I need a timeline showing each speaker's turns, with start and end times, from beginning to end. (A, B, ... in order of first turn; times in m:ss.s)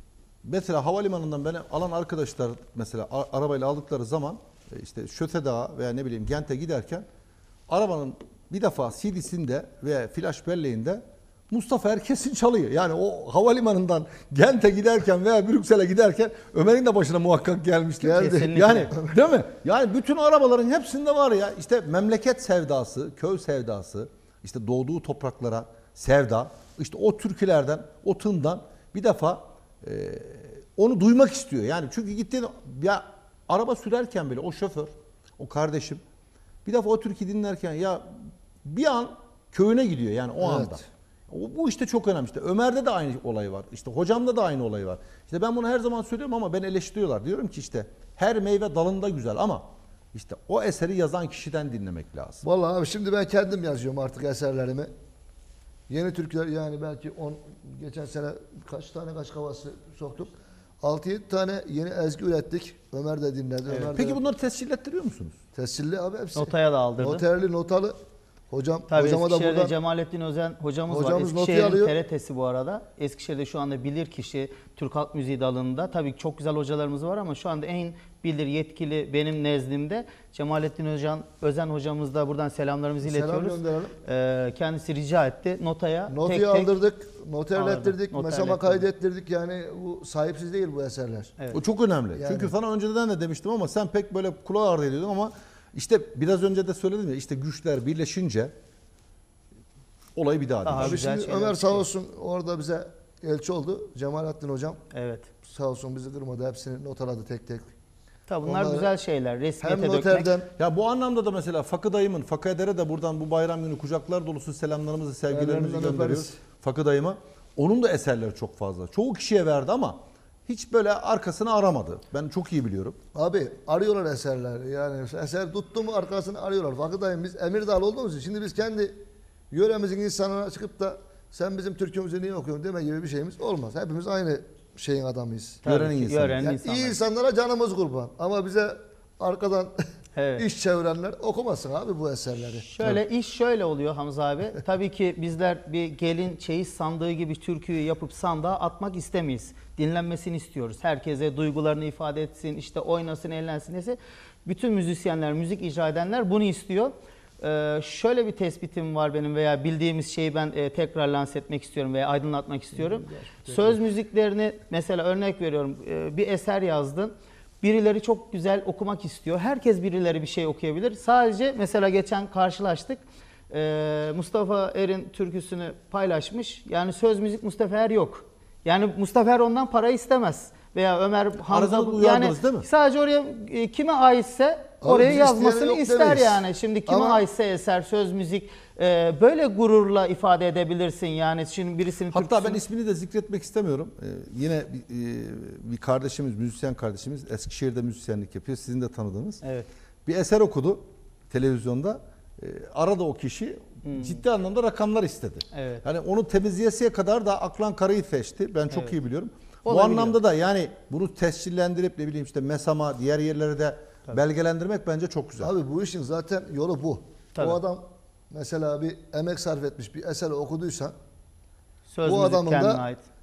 0:00.4-0:07.0 A
0:07.7-0:36.0 A
0:18.0-0:19.2 B
0:18.1-0:18.9 C
0:36.6-0:52.4 A
0:40.4-0:40.8 B
0:52.4-0:54.9 B
0:55.9-1:04.2 B
1:03.9-1:05.4 A
1:05.5-1:08.0 B
1:06.4-1:07.2 C
1:08.5-1:09.7 B
1:08.9-1:26.7 C
1:10.9-1:11.9 B
1:23.0-1:24.0 B
1:26.1-1:31.4 B
1:27.6-1:28.8 C
1:31.5-1:38.5 A
1:32.2-1:32.5 B
1:40.2-1:41.1 A
1:40.6-1:41.8 C
1:40.8-1:44.8 B
1:44.9-1:45.3 C
1:45.4-1:47.7 B
1:48.3-1:50.3 C
1:48.4-1:48.9 B
1:49.6-1:50.5 B
1:50.6-2:03.0 A
1:55.3-1:56.3 B
2:03.2-2:09.0 B
2:09.5-2:15.6 B
2:15.6-2:17.0 C
2:15.6-2:16.5 A
2:16.4-2:19.7 B
2:20.2-2:20.4 C
2:20.4-2:22.7 B
2:22.7-3:12.6 C
2:42.8-2:43.8 B
3:01.5-3:02.7 A
3:04.8-3:07.2 B
3:12.1-3:19.4 A
3:19.4-3:19.7 C
3:20.1-3:35.5 A
3:23.8-3:24.2 C
3:25.5-3:25.8 C
3:29.7-3:30.2 C
3:35.4-3:40.9 B
3:41.9-3:43.0 C
3:42.0-3:42.8 B